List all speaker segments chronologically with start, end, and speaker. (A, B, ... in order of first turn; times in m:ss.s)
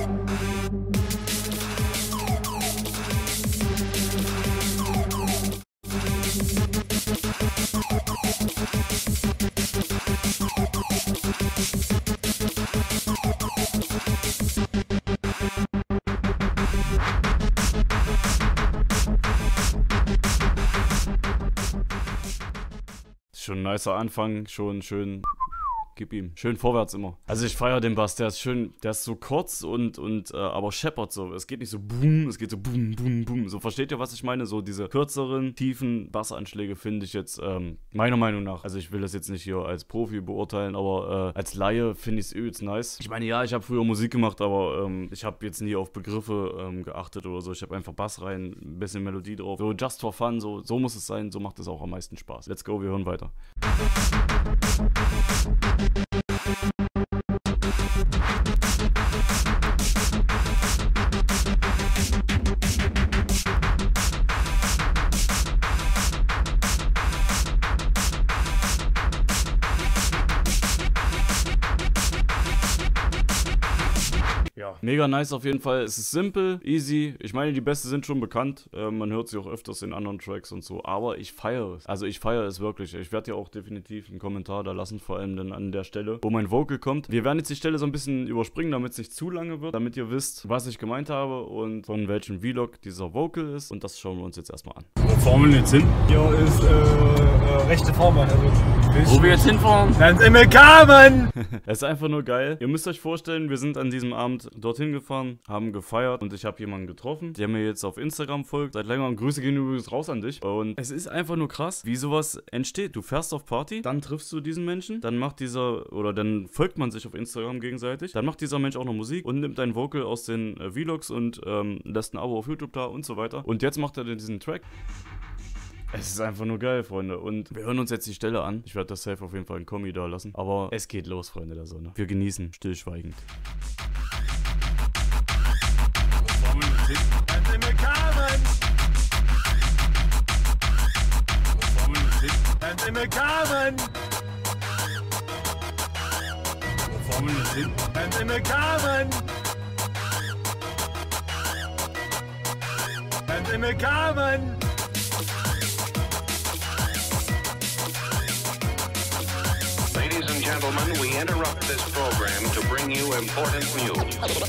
0:23.3-0:53.3 A
1:14.6-1:36.2 A
1:35.9-1:39.4 B
1:38.9-1:40.2 A
1:40.0-1:41.3 B
1:41.0-2:04.6 A
2:05.9-2:13.2 A
2:16.2-2:17.3 A
2:17.3-2:18.5 B
2:21.6-2:22.6 A
2:22.6-2:23.9 B
2:26.9-2:29.2 B
2:27.0-2:27.8 A
2:33.3-2:34.6 B
2:39.9-2:44.2 C